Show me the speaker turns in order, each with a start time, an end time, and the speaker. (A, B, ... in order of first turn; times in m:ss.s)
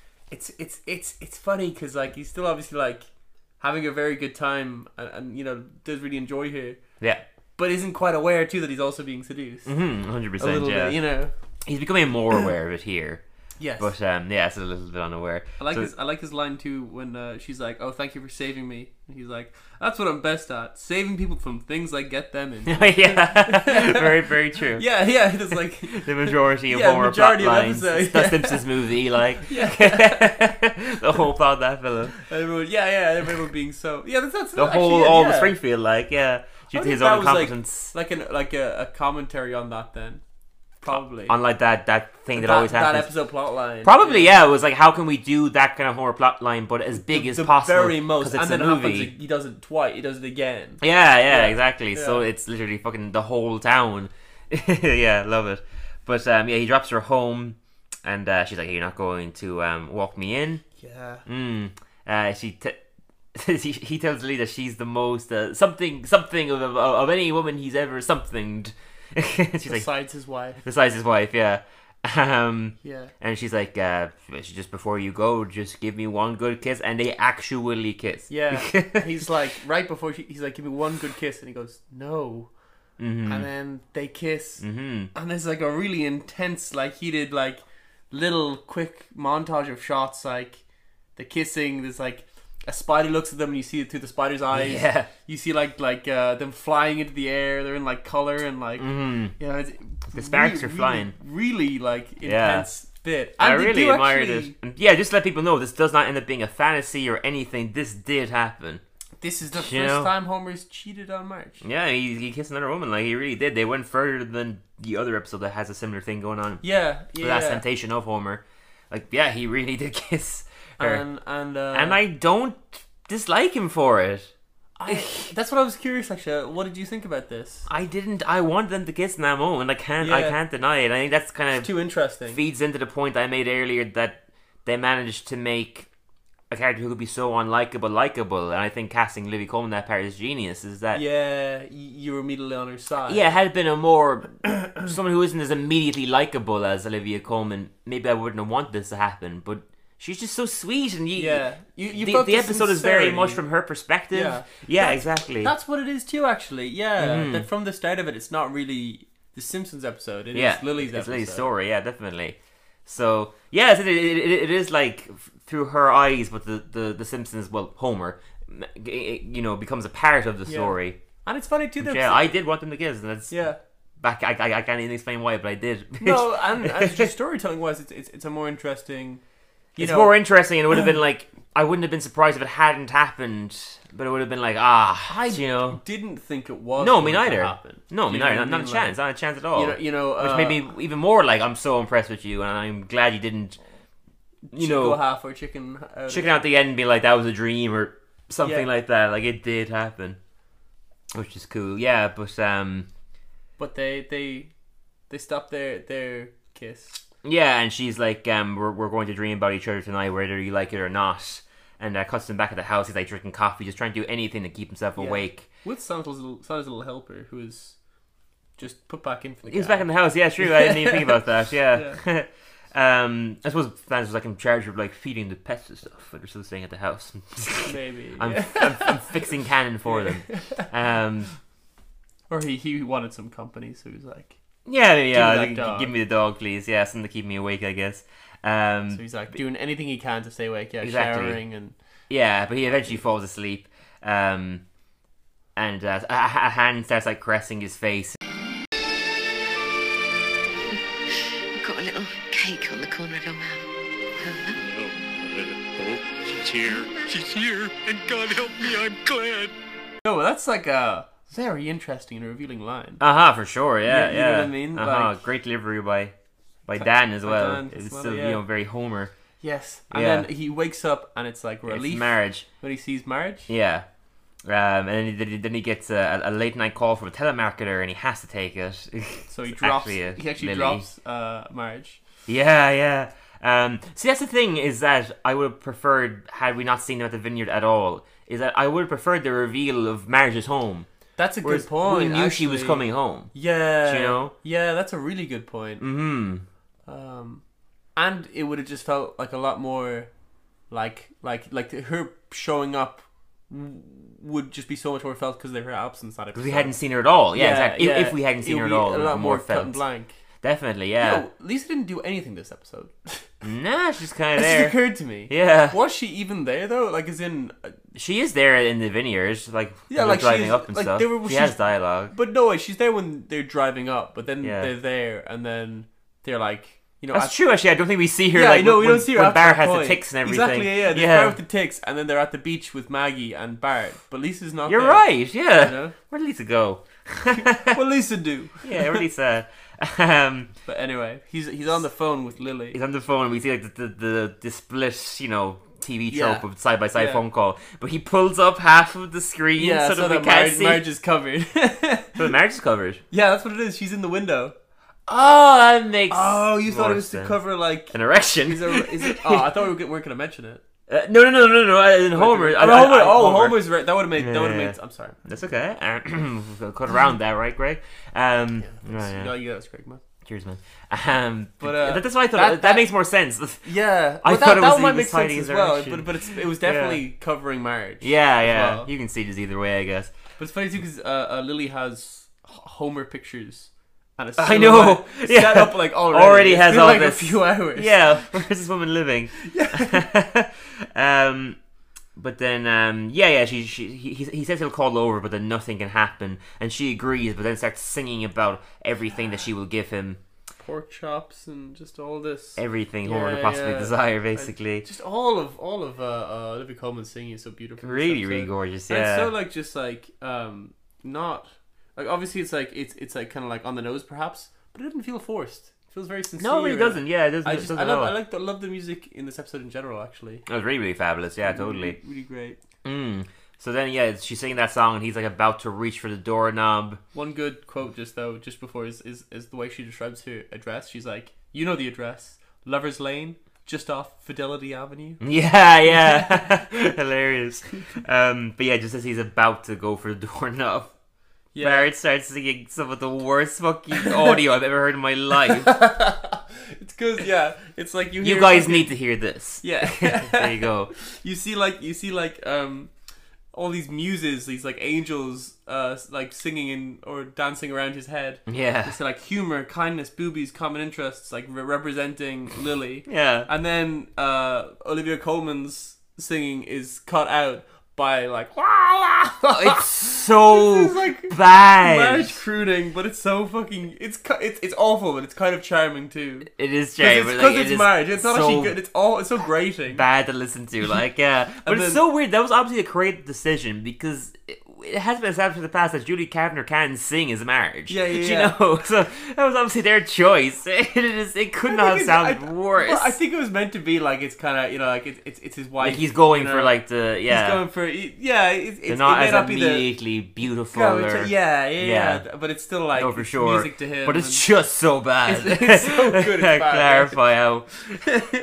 0:00.3-0:02.9 A
0:03.6-0:06.8 A
0:07.6-0:09.6 A
0:09.6-0:11.1 B
0:10.4-0:11.3 A
0:11.6-0:15.9 B
0:13.6-0:13.9 A
0:15.6-0:24.0 A
0:22.6-0:32.2 B
0:24.8-0:25.9 A
0:26.7-0:28.6 A
0:29.5-0:30.2 A
0:32.3-0:35.5 A
0:34.5-0:37.9 B
0:36.7-0:40.1 A
0:40.8-0:41.3 A
0:40.9-0:43.2 B
0:42.4-0:44.3 A
0:43.7-0:49.2 B
0:47.1-0:50.8 A
0:50.8-1:00.6 B
0:51.3-0:52.2 A
1:00.8-1:01.2 A
1:01.2-1:02.8 B
1:03.3-1:10.0 B
1:09.7-1:10.6 A
1:10.6-1:19.2 B
1:12.8-1:13.1 A
1:18.3-1:22.5 A
1:23.0-1:23.5 B
1:23.3-1:24.6 A
1:24.6-1:25.1 B
1:25.2-1:27.6 A
1:28.1-1:30.4 A
1:31.2-1:32.2 A
1:32.7-1:34.8 A
1:34.5-1:35.1 B
1:35.3-1:38.8 A
1:38.8-1:39.3 B
1:39.4-1:44.5 A
1:40.1-1:41.2 B
1:42.2-1:42.7 B
1:43.4-1:48.8 B
1:49.2-1:51.5 A
1:49.5-1:50.1 B
1:51.6-2:01.1 B
1:56.6-1:57.6 A
2:00.8-2:02.0 A
2:01.7-2:04.3 B
2:04.8-2:07.6 A
2:04.8-2:05.3 B
2:07.7-2:15.9 B
2:10.0-2:10.4 A
2:11.6-2:12.4 A
2:16.5-2:21.0 B
2:21.0-2:23.2 A
2:23.0-2:35.6 B
2:31.2-2:33.4 A
2:34.1-2:41.5 A
2:37.0-2:37.5 B
2:40.3-2:51.0 B
2:50.5-2:50.7 A
2:51.2-2:52.2 A
2:51.8-2:57.1 B
2:53.3-2:53.6 A
2:56.0-2:59.2 A
2:59.8-3:05.8 B
2:59.8-3:00.1 A
3:05.1-3:08.9 A
3:06.8-3:13.6 B
3:09.6-3:10.6 A
3:14.5-3:16.3 A
3:14.5-3:15.0 B
3:16.1-3:20.2 B
3:21.1-3:22.9 B
3:23.6-3:24.5 A
3:25.1-3:26.9 A
3:27.2-3:35.5 B
3:35.0-3:37.7 A
3:38.6-3:39.9 A
3:39.4-3:51.3 B
3:40.4-3:41.1 A
3:47.7-3:49.1 A
3:50.0-3:50.5 A
3:52.3-3:54.3 A
3:54.6-3:59.4 B
3:55.1-3:55.9 A
3:58.9-4:01.7 A
4:00.8-4:01.4 B
4:02.1-4:04.6 B
4:05.6-4:08.2 B
4:11.6-4:13.6 C
4:14.2-4:14.6 C
4:14.6-4:19.5 D
4:20.0-4:23.0 A
4:23.0-4:26.1 B
4:23.8-4:25.1 A
4:26.6-4:29.1 B
4:26.8-4:28.4 A
4:29.4-4:33.5 A
4:29.9-4:30.3 B
4:31.7-4:32.5 B
4:33.5-4:33.8 B
4:34.4-4:40.9 B
4:39.3-4:42.0 A
4:42.3-4:54.3 B
4:51.2-4:55.8 A
4:55.8-4:56.4 B
4:56.9-4:57.4 A
4:58.0-5:00.1 A
5:00.7-5:06.8 A
5:06.3-5:09.9 B
5:07.3-5:10.1 A
5:10.4-5:11.3 B
5:11.0-5:13.2 A
5:13.4-5:15.8 B
5:14.4-5:17.7 A
5:17.9-5:22.1 B
5:19.9-5:21.6 A
5:22.1-5:27.3 A
5:24.4-5:24.8 B
5:27.1-5:31.4 B
5:28.3-5:35.0 A
5:34.6-5:37.9 B
5:35.6-5:35.9 A
5:37.7-5:39.0 A
5:38.6-5:40.5 B
5:40.7-5:42.8 A
5:42.7-5:50.9 B
5:46.1-5:46.4 A
5:46.9-5:47.2 A
5:49.6-5:52.2 A
5:52.1-5:53.0 B
5:53.1-5:54.5 A
5:55.1-5:59.6 B
5:56.1-6:00.6 A
6:00.9-6:09.4 B
6:02.1-6:05.2 A
6:08.6-6:10.0 A
6:10.2-6:17.0 B
6:11.6-6:12.8 A
6:13.6-6:18.9 A
6:18.0-6:20.1 B
6:20.4-6:28.2 A
6:24.4-6:31.6 B
6:29.4-6:29.9 A
6:32.2-6:40.2 B
6:40.6-7:00.4 A
6:42.6-6:44.9 B
6:47.8-6:49.3 B
6:56.3-6:58.2 B
7:00.4-7:02.0 B
7:01.4-7:02.6 A
7:02.8-7:07.0 B
7:07.1-7:15.2 A
7:15.2-7:20.9 B
7:21.5-7:21.9 A
7:21.6-7:25.8 B
7:25.7-7:28.9 A
7:28.2-7:30.9 B
7:29.6-7:30.6 A
7:31.2-7:32.9 A
7:33.5-7:56.5 A
7:38.4-7:39.0 B
7:43.0-7:43.5 B
7:49.5-7:52.4 B
7:56.5-7:58.8 B
7:57.0-8:00.0 A
7:59.9-8:13.2 B
8:01.6-8:02.0 A
8:07.9-8:08.6 A
8:11.7-8:16.7 A
8:15.8-8:17.7 B
8:17.3-8:19.9 A
8:18.8-8:22.3 B
8:20.7-8:24.4 A
8:22.9-8:28.2 B
8:25.3-8:27.2 A